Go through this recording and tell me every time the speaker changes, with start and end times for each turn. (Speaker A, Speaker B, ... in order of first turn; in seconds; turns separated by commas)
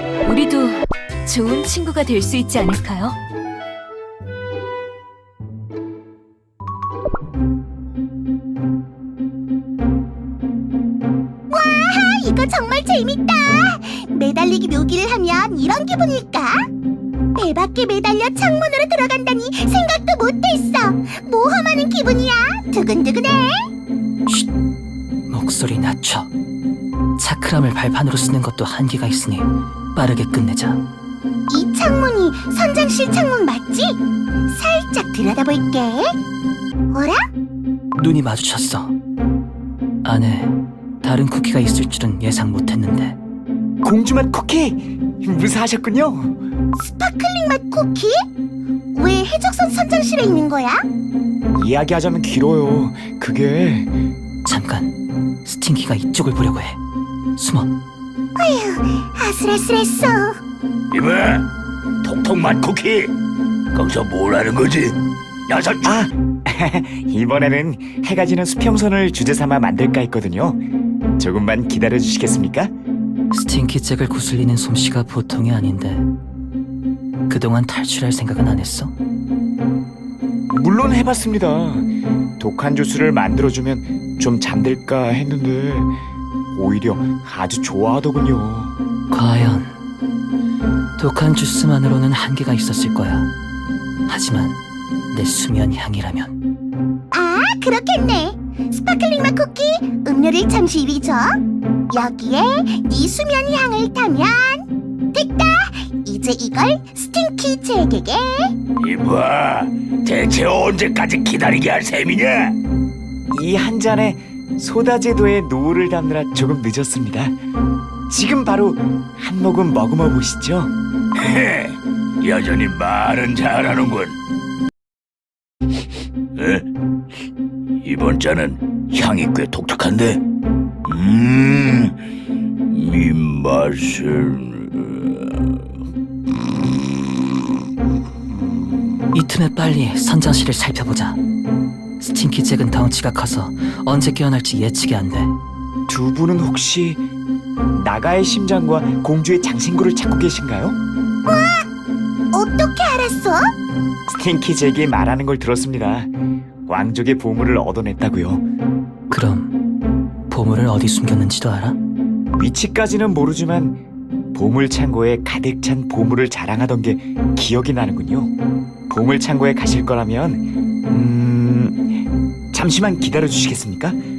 Speaker A: 0.2-3.2, Speaker B: 11.5-16.6, Speaker B: 17.3-23.7, Speaker C: 25.3-26.3, Speaker C: 27.2-30.8, Speaker B: 31.5-36.1, Speaker B: 36.9-37.2, Speaker C: 38.0-38.9, Speaker C: 40.0-43.1, Speaker D: 43.8-46.4, Speaker B: 46.8-48.2, Speaker B: 48.9-50.8, Speaker D: 51.5-53.9, Speaker C: 54.5-56.8, Speaker C: 57.4-57.7, Speaker B: 58.4-60.4, Speaker E: 60.9-61.5, Speaker E: 62.0-63.1, Speaker E: 63.7-65.0, Speaker E: 65.5-66.0, Speaker D: 65.8-70.6, Speaker D: 71.2-72.7, Speaker C: 73.3-76.1, Speaker C: 77.3-78.9, Speaker D: 80.5-81.9, Speaker D: 82.4-85.9, Speaker D: 86.5-88.8, Speaker C: 89.1-89.7, Speaker C: 91.0-93.3, Speaker C: 94.1-94.6, Speaker C: 95.1-96.3, Speaker B: 97.1-101.4, Speaker B: 101.9-108.5, Speaker E: 108.8-112.5, Speaker D: 113.3-117.4, Speaker D: 118.1-120.7, Speaker E: 121.2-124.2, Speaker E: 126.3-126.6, Speaker E: 127.8-130.2, Speaker E: 130.8-131.9, Speaker E: 132.7-135.1, Speaker C: 139.1-141.2, Speaker C: 142.0-145.3, Speaker D: 145.9-147.0, Speaker D: 147.7-150.8, Speaker B: 151.2-151.7, Speaker B: 152.3-153.4, Speaker D: 154.1-156.1, Speaker D: 156.7-158.4, Speaker C: 159.1-159.5, Speaker C: 160.3-161.8, Speaker D: 162.4-163.8, Speaker D: 164.3-168.3, Speaker D: 168.9-171.8, Speaker D: 172.5-174.0